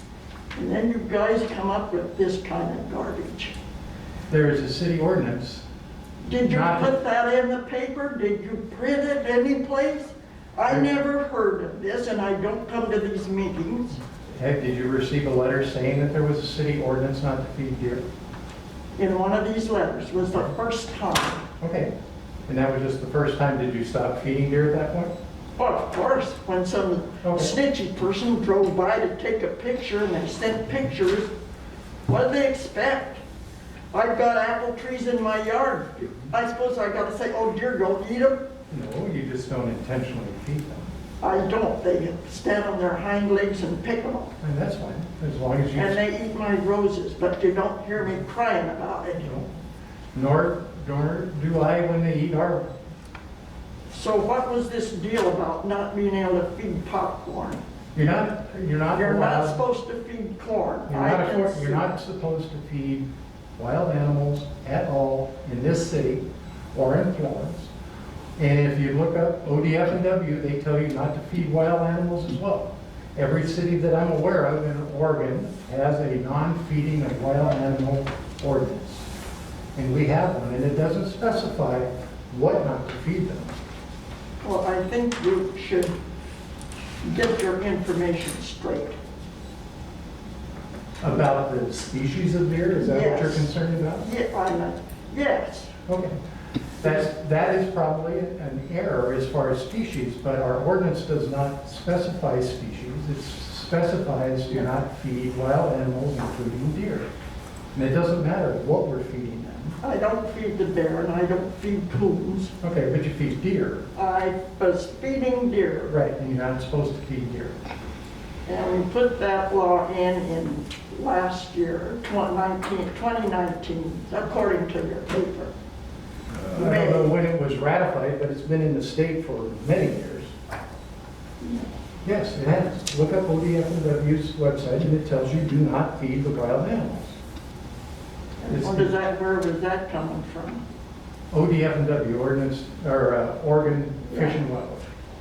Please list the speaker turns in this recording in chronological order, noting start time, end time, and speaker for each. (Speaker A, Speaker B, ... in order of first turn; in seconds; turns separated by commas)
Speaker A: 0.6-3.5, Speaker B: 4.3-5.6, Speaker A: 6.2-14.0, Speaker B: 6.4-6.9, Speaker B: 14.3-18.0, Speaker A: 19.0-21.4, Speaker B: 21.6-21.9, Speaker B: 22.5-25.1, Speaker A: 25.6-31.3, Speaker B: 27.2-27.6, Speaker A: 32.1-33.2, Speaker A: 33.9-38.4, Speaker B: 38.7-40.9, Speaker A: 41.2-44.3, Speaker B: 44.4-46.0, Speaker A: 45.8-49.3, Speaker B: 49.2-49.5, Speaker B: 50.1-52.6, Speaker A: 53.9-57.6, Speaker B: 57.9-59.6, Speaker A: 58.9-61.9, Speaker B: 60.9-67.7, Speaker B: 68.4-79.1, Speaker B: 79.8-83.5, Speaker A: 84.4-86.0, Speaker A: 87.0-89.0, Speaker B: 91.0-94.0, Speaker A: 92.8-95.7, Speaker B: 95.9-96.2, Speaker B: 96.8-107.1, Speaker B: 107.8-109.8, Speaker A: 109.8-112.5, Speaker B: 112.6-113.9, Speaker A: 114.0-116.0, Speaker B: 115.9-117.5, Speaker A: 118.5-125.5, Speaker B: 126.5-130.3, Speaker A: 126.5-127.2, Speaker A: 131.4-131.7, Speaker B: 132.0-137.2, Speaker A: 138.4-140.6, Speaker B: 138.5-138.9, Speaker B: 141.3-144.9, Speaker A: 144.1-144.4